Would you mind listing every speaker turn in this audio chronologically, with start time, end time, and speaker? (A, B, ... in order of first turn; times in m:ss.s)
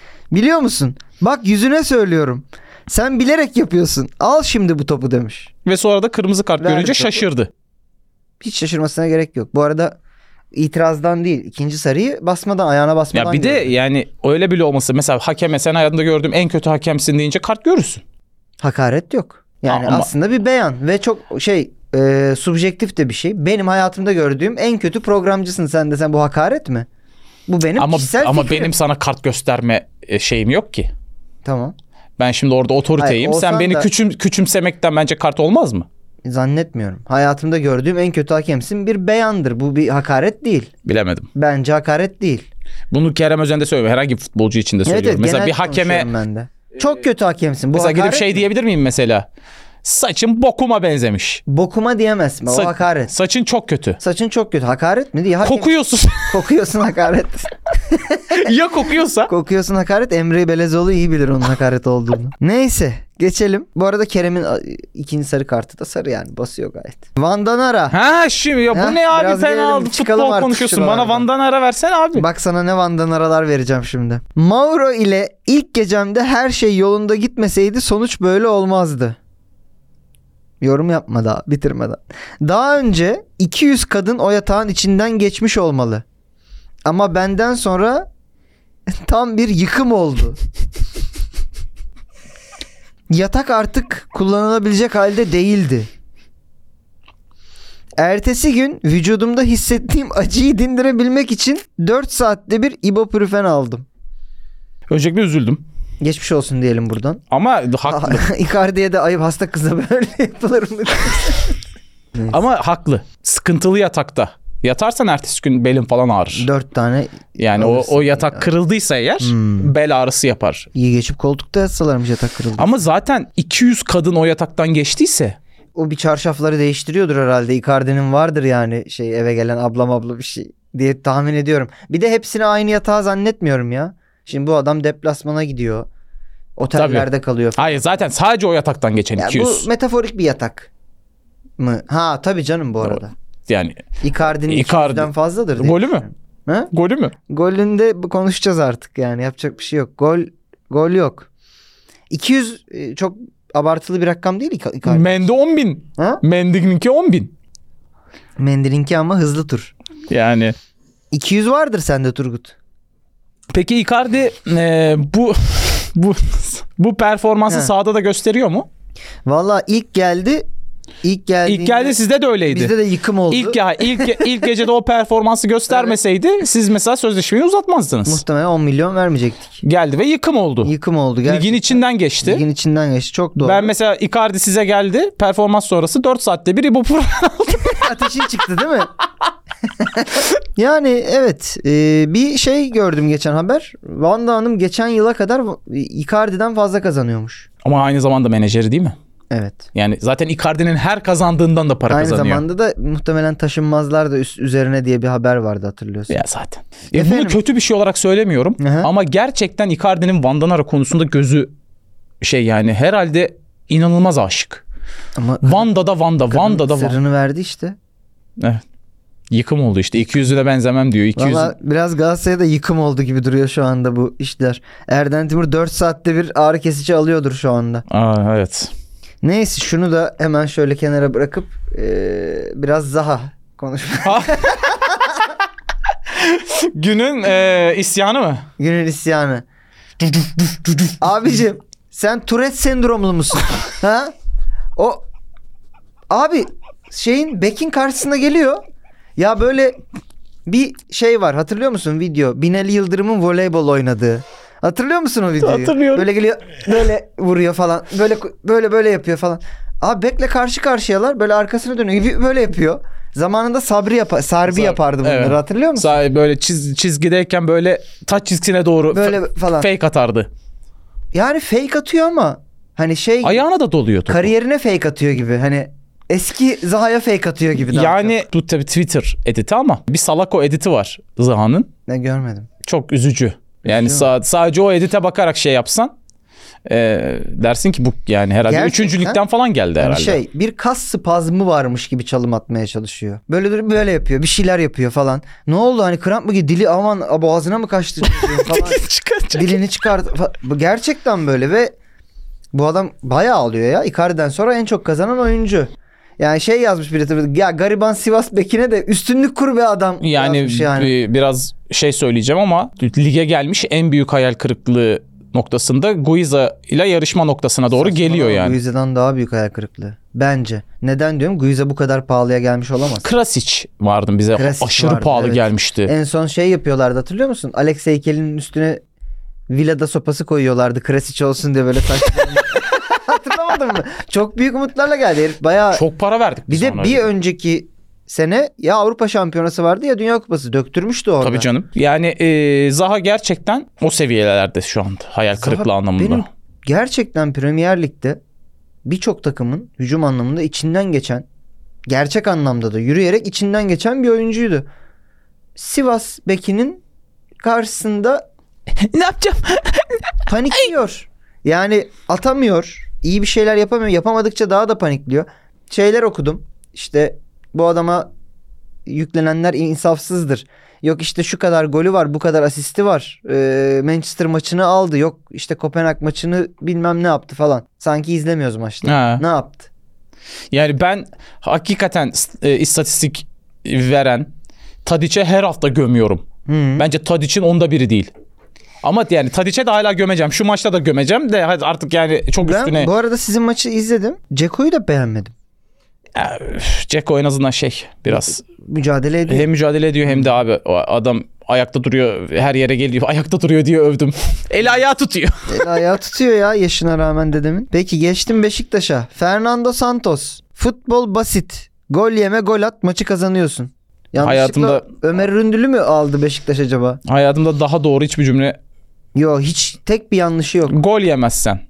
0:00.3-0:05.5 A
0:05.6-0:07.5 B
0:06.6-0:07.2 A
0:08.4-0:10.0 A
0:10.5-0:13.7 A
0:13.1-0:18.0 B
0:18.6-0:26.9 A
0:19.6-0:20.1 B
0:27.5-0:28.7 A
0:27.8-0:30.9 B
0:31.4-0:31.7 A
0:32.2-0:35.9 B
0:33.0-0:33.9 A
0:36.2-0:40.7 A
0:40.8-0:41.3 B
0:41.3-0:42.5 A
0:42.9-0:46.1 B
0:44.8-0:48.4 A
0:47.7-0:49.3 B
0:49.8-0:51.4 B
0:51.5-0:53.1 A
0:52.5-0:54.0 B
0:54.0-0:58.5 A
0:55.4-0:56.4 B
0:58.3-0:59.3 B
0:59.3-1:08.0 A
1:07.9-1:12.2 B
1:08.7-1:11.2 A
1:12.1-1:19.2 A
1:20.6-1:26.0 A
1:26.8-1:28.1 A
1:28.9-1:30.4 A
1:33.1-1:35.9 A
1:38.0-1:43.8 A
1:44.9-1:45.6 B
1:46.0-1:47.2 A
1:47.3-1:48.2 B
1:47.8-1:51.6 A
1:52.3-1:56.5 B
1:56.3-1:58.5 A
1:57.4-2:00.7 B
1:59.2-1:59.7 A
2:00.7-2:02.8 A
2:02.6-2:05.4 B
2:05.7-2:15.9 A
2:16.6-2:18.0 A
2:16.8-2:19.7 B
2:19.2-2:20.7 A
2:21.6-2:23.1 A
2:22.8-2:23.8 B
2:24.0-2:26.7 A
2:24.4-2:26.0 B
2:26.7-2:27.1 B
2:27.3-2:31.3 A
2:32.1-2:35.2 A
2:34.8-2:37.3 B
2:36.0-2:36.2 A
2:38.4-2:39.7 A
2:40.1-2:40.5 B
2:41.1-2:42.5 A
2:43.5-2:48.7 B
2:49.2-2:50.4 A
2:51.0-2:52.0 A
2:51.4-2:52.7 B
2:52.5-2:54.3 A
2:53.3-2:58.2 B
2:58.0-2:59.6 A
2:59.6-3:00.7 B
3:00.6-3:03.7 A
3:01.2-3:02.4 B
3:03.4-3:07.9 B
3:07.7-3:08.9 A
3:09.8-3:17.5 A
3:17.6-3:19.0 B
3:19.3-3:19.7 A
3:19.7-3:22.4 B
3:21.9-3:26.2 A
3:26.1-3:31.5 B
3:26.9-3:27.4 A
3:28.6-3:28.9 A
3:32.2-3:34.6 B
3:35.2-3:35.7 A
3:35.4-3:37.0 B
3:36.3-3:37.8 A
3:38.4-3:38.6 B
3:39.3-3:41.5 B
3:41.2-3:47.8 A
3:47.9-3:48.7 B
3:49.2-3:55.3 A
3:54.0-3:54.7 B
3:56.1-3:58.4 B
3:58.6-3:59.4 A
4:00.1-4:00.9 B
4:01.0-4:04.1 A
4:04.8-4:05.0 A
4:06.1-4:08.6 A
4:09.2-4:09.8 A
4:10.4-4:25.9 A
4:15.4-4:16.1 B
4:24.5-4:30.3 B
4:28.9-4:29.7 A
4:31.1-4:33.4 A
4:33.2-4:34.3 B
4:34.1-4:38.2 A
4:37.7-4:41.7 B
4:41.9-4:42.5 A
4:42.6-4:45.9 B
4:43.6-4:44.1 A
4:46.6-4:50.2 B
4:48.4-4:49.2 A
4:49.8-5:01.7 A
4:58.0-4:59.6 B
5:02.5-5:10.9 A
5:10.0-5:18.6 B
5:17.7-5:23.0 A
5:23.0-5:25.9 B
5:24.4-5:28.8 A
5:29.5-5:35.8 A
5:35.7-5:37.1 B
5:36.5-5:41.5 A
5:41.2-5:46.3 B
5:45.4-5:48.2 A
5:48.8-5:51.2 A
5:51.9-5:54.6 A
5:55.6-5:56.8 A
5:57.4-5:58.2 A
5:58.8-6:00.6 B
6:00.3-6:08.1 A
6:08.9-6:19.7 A
6:18.8-6:19.2 B
6:20.5-6:24.3 B
6:24.8-6:26.2 B
6:26.5-6:26.9 A
6:26.8-6:28.1 B
6:28.8-6:32.9 B
6:32.4-6:35.3 A
6:36.1-6:38.4 B
6:38.1-6:39.5 A
6:39.3-6:45.7 B
6:45.5-6:57.0 A
6:54.2-6:54.9 B
6:57.0-6:58.6 B
6:59.1-7:00.8 A
7:00.7-7:01.6 B